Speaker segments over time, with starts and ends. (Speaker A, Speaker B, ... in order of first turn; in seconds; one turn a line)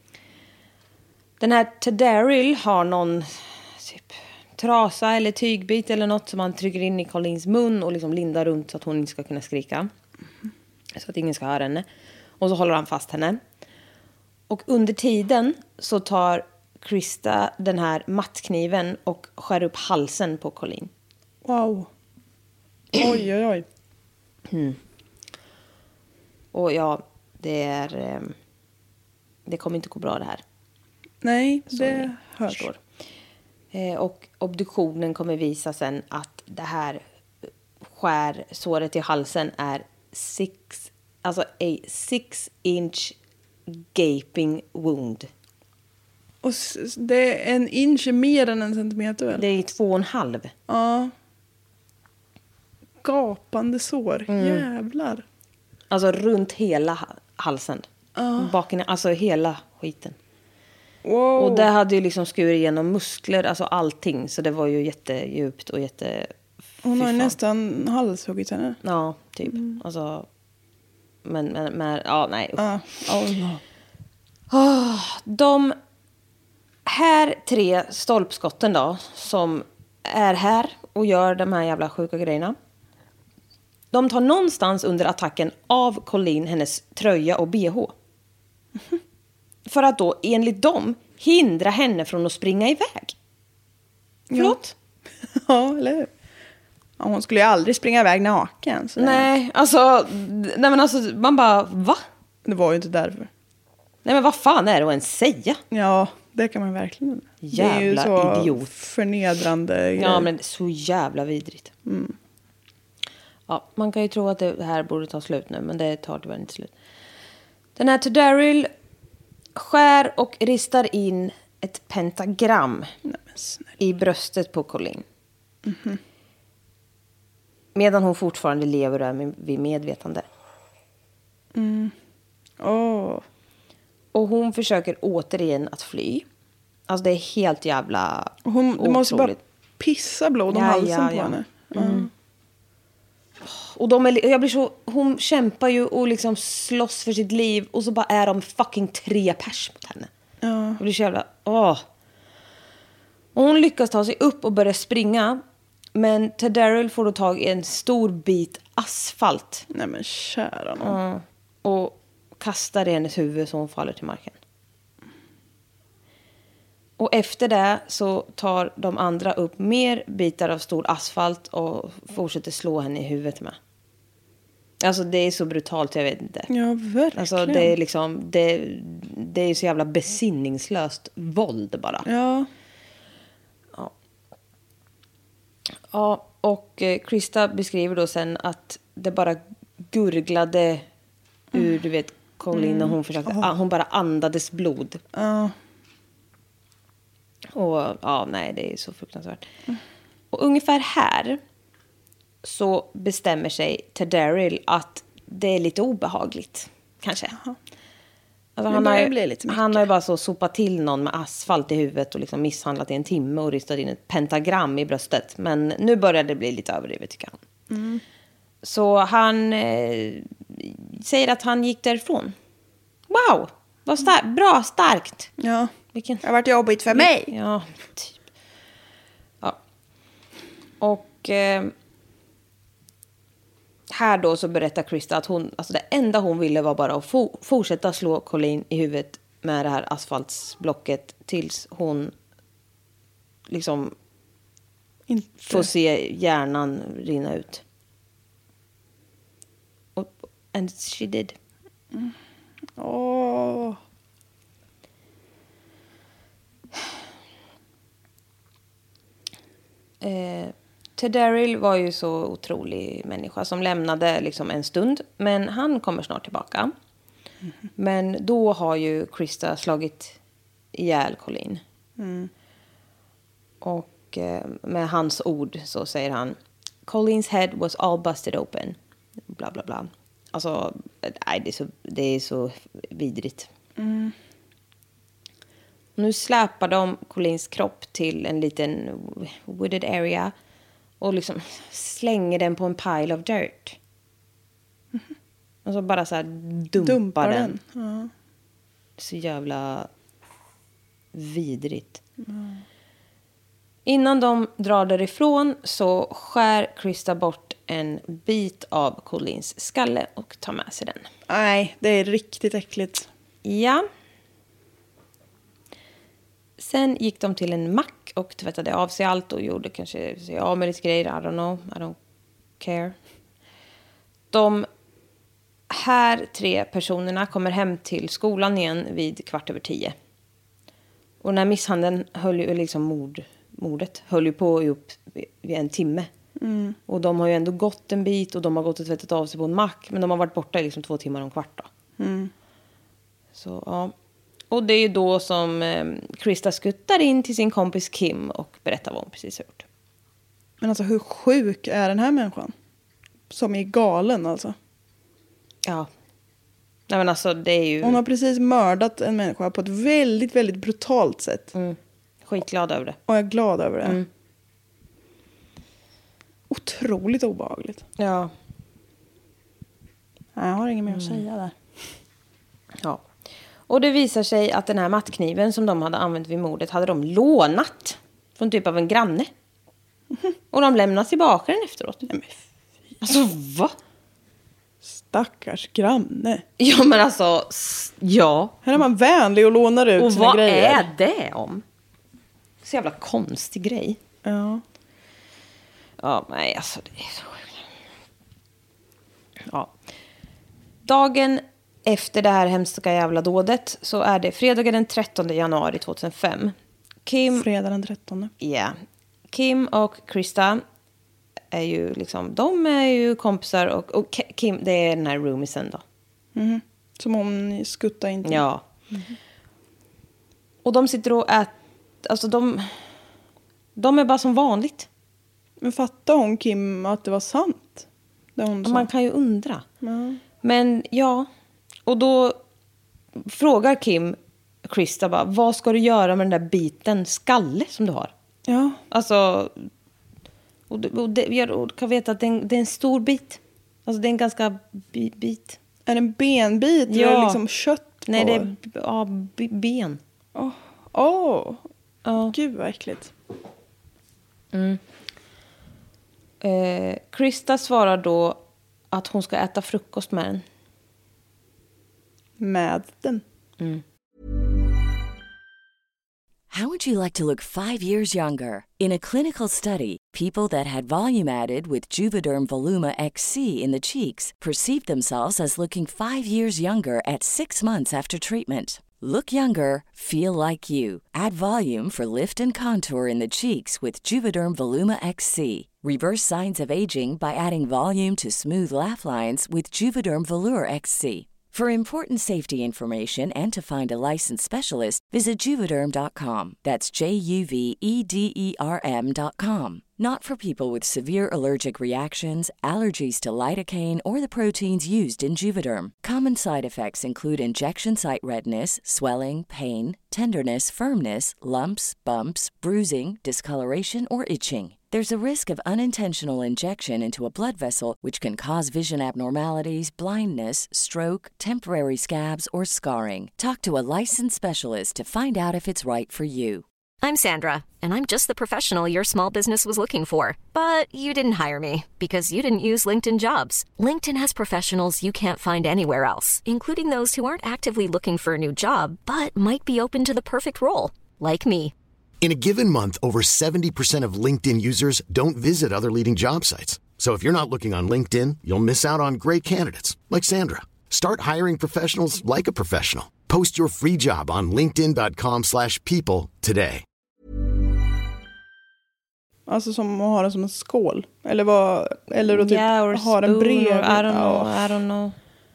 Speaker A: 1.4-9.9
Speaker A: 10.9-11.8
Speaker A: 12.4-13.4
Speaker A: 14.5-20.9
Speaker B: 21.4-21.9
Speaker B: 22.9-23.6
Speaker A: 24.5-24.8
Speaker A: 26.5-28.3
Speaker A: 29.4-30.4
Speaker B: 31.2-32.7
Speaker A: 31.7-32.8
Speaker A: 33.7-37.0
Speaker A: 37.9-43.1
Speaker A: 43.7-45.3
Speaker B: 46.4-49.4
Speaker A: 49.4-50.5
Speaker B: 50.7-51.1
Speaker B: 53.0-55.2
Speaker A: 54.3-54.7
Speaker A: 55.9-60.1
Speaker B: 58.1-58.5
Speaker B: 61.0-61.7
Speaker A: 61.4-66.3
Speaker B: 66.8-68.8
Speaker A: 66.9-67.4
Speaker A: 68.8-70.3
Speaker A: 71.2-72.6
Speaker B: 72.6-73.6
Speaker A: 74.5-75.8
Speaker A: 76.8-82.5
Speaker A: 83.9-87.9
Speaker A: 89.7-93.1
Speaker B: 94.3-94.6
Speaker A: 94.3-94.7
Speaker B: 95.3-96.1
Speaker B: 97.0-99.3
Speaker A: 99.0-102.0
Speaker B: 102.4-103.3
Speaker A: 104.0-105.6
Speaker B: 105.7-110.3
Speaker A: 107.4-108.7
Speaker A: 110.0-111.7
Speaker B: 111.8-112.2
Speaker A: 113.5-116.7
Speaker A: 117.8-118.7
Speaker A: 119.5-122.9
Speaker B: 123.1-123.7
Speaker A: 123.8-125.0
Speaker B: 125.7-126.0
Speaker A: 127.7-130.2
Speaker B: 131.5-131.9
Speaker B: 132.6-133.2
Speaker A: 134.1-136.2
Speaker A: 136.9-139.4
Speaker B: 138.4-142.1
Speaker A: 140.5-142.1
Speaker A: 143.4-150.1
Speaker B: 150.4-150.8
Speaker A: 150.8-151.8
Speaker A: 153.3-155.4
Speaker A: 155.9-159.7
Speaker B: 159.7-161.0
Speaker A: 160.8-164.4
Speaker A: 167.0-173.6
Speaker A: 174.8-176.5
Speaker B: 176.5-177.7
Speaker A: 177.2-182.1
Speaker B: 182.0-182.5
Speaker A: 185.9-190.8
Speaker A: 191.5-195.0
Speaker B: 192.5-193.4
Speaker B: 195.1-195.5
Speaker A: 197.5-199.5
Speaker A: 200.3-201.4
Speaker A: 202.4-207.4
Speaker A: 208.6-217.3
Speaker B: 208.7-209.8
Speaker B: 217.7-218.0
Speaker A: 218.6-222.3
Speaker A: 223.1-225.3
Speaker B: 225.4-225.7
Speaker A: 225.9-226.2
Speaker B: 226.2-227.3
Speaker A: 226.9-228.2
Speaker A: 230.8-231.7
Speaker A: 233.9-242.1
Speaker A: 243.5-243.9
Speaker B: 245.1-245.7
Speaker A: 245.4-247.6
Speaker A: 249.9-251.3
Speaker B: 252.8-253.8
Speaker A: 260.0-266.7
Speaker A: 267.8-270.2
Speaker A: 270.7-271.6
Speaker B: 272.0-272.3
Speaker A: 273.6-278.8
Speaker A: 279.3-283.5
Speaker B: 283.8-284.1
Speaker A: 286.0-290.3
Speaker A: 291.0-293.8
Speaker A: 295.6-297.5
Speaker B: 296.8-298.1
Speaker A: 299.0-299.9
Speaker A: 301.1-302.0
Speaker B: 302.2-302.6
Speaker A: 303.9-311.1
Speaker B: 311.3-313.1
Speaker A: 313.4-313.8
Speaker A: 316.6-321.9
Speaker A: 322.6-322.9
Speaker A: 324.3-324.7
Speaker A: 325.7-329.9
Speaker A: 331.2-336.1
Speaker B: 336.4-336.8
Speaker A: 336.9-341.7
Speaker B: 342.0-342.3
Speaker A: 343.3-343.9
Speaker A: 344.5-349.6
Speaker B: 350.6-352.5
Speaker B: 353.3-354.6
Speaker A: 356.9-358.0
Speaker B: 357.8-361.5
Speaker A: 361.5-363.0
Speaker B: 363.1-364.0
Speaker B: 366.5-367.8
Speaker A: 368.0-368.3
Speaker B: 370.4-371.5
Speaker A: 370.9-371.2
Speaker A: 373.7-379.3
Speaker A: 380.5-382.0
Speaker B: 382.0-382.4
Speaker A: 383.0-383.7
Speaker B: 384.8-386.4
Speaker A: 386.6-388.6
Speaker B: 388.6-390.9
Speaker A: 390.0-391.6
Speaker A: 392.6-394.0
Speaker B: 394.2-394.6
Speaker A: 396.0-397.6
Speaker A: 400.8-406.5
Speaker A: 407.1-407.5
Speaker B: 407.3-408.3
Speaker A: 408.4-408.8
Speaker A: 409.3-410.6
Speaker A: 411.5-415.8
Speaker B: 416.3-419.1
Speaker A: 418.2-418.6
Speaker A: 420.6-422.8
Speaker A: 423.8-424.9
Speaker B: 425.6-428.9
Speaker A: 428.6-429.6
Speaker B: 429.8-430.2
Speaker A: 430.4-431.3
Speaker A: 431.9-432.4
Speaker A: 433.2-438.1
Speaker B: 438.5-438.8
Speaker A: 438.9-439.6
Speaker A: 440.7-445.6
Speaker B: 445.9-448.5
Speaker A: 446.9-447.4
Speaker A: 448.1-450.0
Speaker B: 450.3-451.6
Speaker A: 452.0-452.3
Speaker B: 452.3-453.1
Speaker A: 454.5-454.8
Speaker A: 456.4-458.4
Speaker A: 458.9-460.4
Speaker B: 462.4-463.2
Speaker C: 466.5-526.6
Speaker D: 527.0-541.7
Speaker E: 542.2-556.8
Speaker B: 559.5-564.7
Speaker A: 562.2-565.1